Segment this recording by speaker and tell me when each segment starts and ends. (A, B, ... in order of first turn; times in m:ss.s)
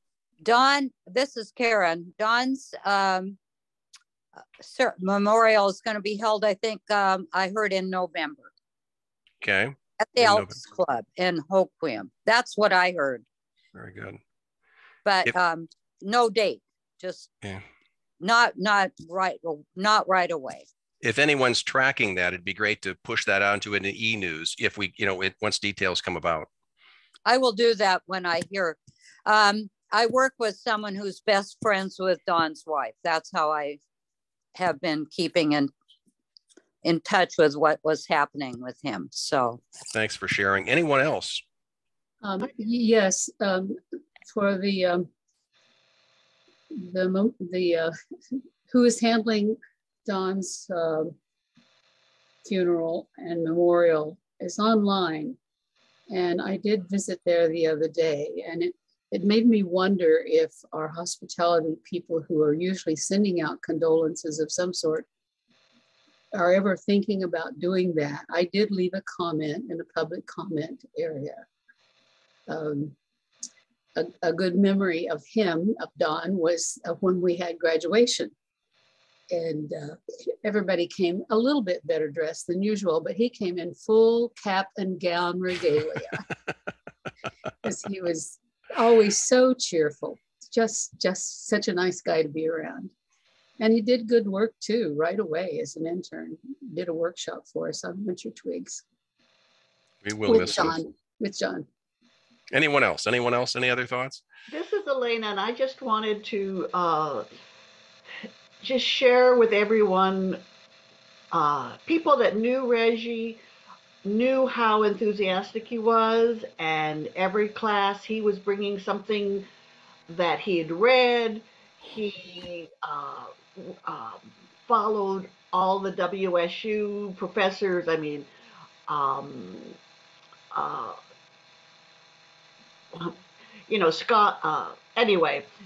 0:00.4-0:03.4 A
0:04.6-0:08.5 A
0:09.4-0:10.6 B
0:10.0-0:13.2 A
0:13.7-0:14.2 B
0:15.0-0:17.3 A
0:18.2-0:20.6 A
0:21.0-0:26.5 B
0:27.2-0:33.8 A
0:34.5-0:35.7 A
0:36.8-0:39.6 A
0:39.9-0:41.4 B
0:42.2-0:45.1 C
0:46.7-0:47.9 C
0:48.7-0:51.2 C
0:52.4-0:55.4 C
0:56.1-1:05.1 C
1:06.3-1:11.5 C
1:12.5-1:13.0 C
1:13.9-1:18.3 C
1:19.3-1:26.2 C
1:27.6-1:32.9 C
1:33.6-1:38.8 C
1:40.0-1:40.8 B
1:40.2-1:41.7 C
1:42.5-1:44.2 B
1:44.5-1:47.3 D
1:48.6-1:50.4 D
1:51.3-1:53.4 D
1:54.0-1:59.5 D
2:00.1-2:08.3 D
2:08.9-2:09.8 D
2:10.5-2:11.0 D
2:12.9-2:15.5 D